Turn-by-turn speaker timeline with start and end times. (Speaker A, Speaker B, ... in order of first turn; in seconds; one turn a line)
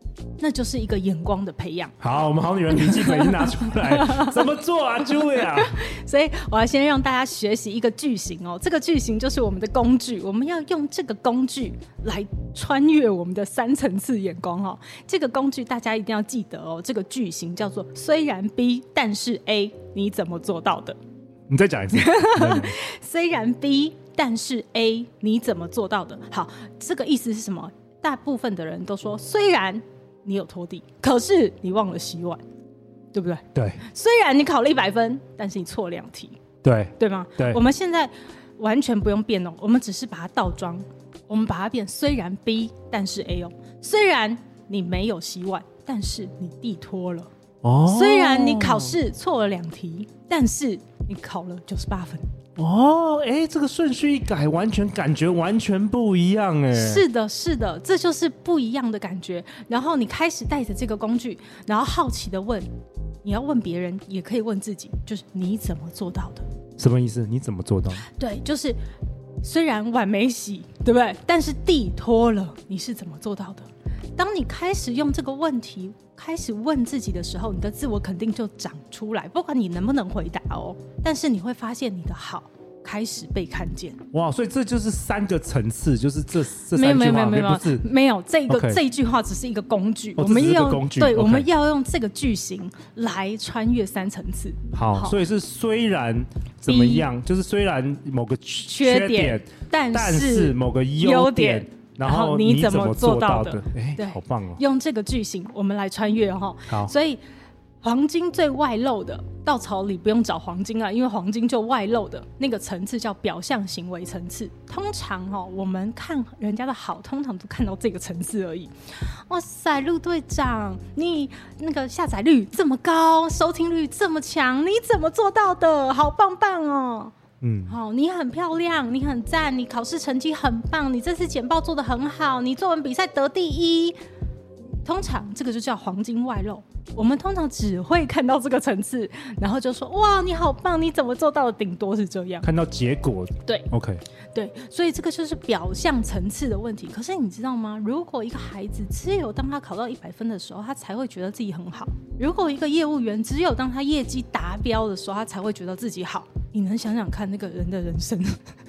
Speaker A: 0.4-2.0
Speaker B: 2.0-5.8
Speaker A: 2.7-4.5
Speaker A: 5.2-21.0
Speaker B: 21.5-22.8
Speaker A: 21.9-32.4
Speaker A: 33.1-36.4
Speaker B: 33.5-33.8
Speaker B: 36.6-37.6
Speaker A: 37.0-47.3
Speaker B: 47.6-49.0
Speaker A: 47.9-52.3
Speaker B: 52.6-57.0
Speaker A: 56.7-62.7
Speaker A: 63.2-66.5
Speaker B: 66.8-68.1
Speaker A: 68.0-68.8
Speaker A: 69.4-84.0
Speaker B: 84.1-87.8
Speaker A: 86.7-95.2
Speaker B: 88.5-88.8
Speaker B: 90.2-91.5
Speaker B: 94.7-104.6
Speaker A: 96.7-97.1
Speaker A: 98.7-107.2
Speaker B: 106.7-106.9
Speaker A: 107.8-127.1
Speaker B: 127.4-127.8
Speaker A: 127.7-134.0
Speaker A: 134.8-142.5
Speaker B: 142.4-144.0
Speaker A: 144.3-158.4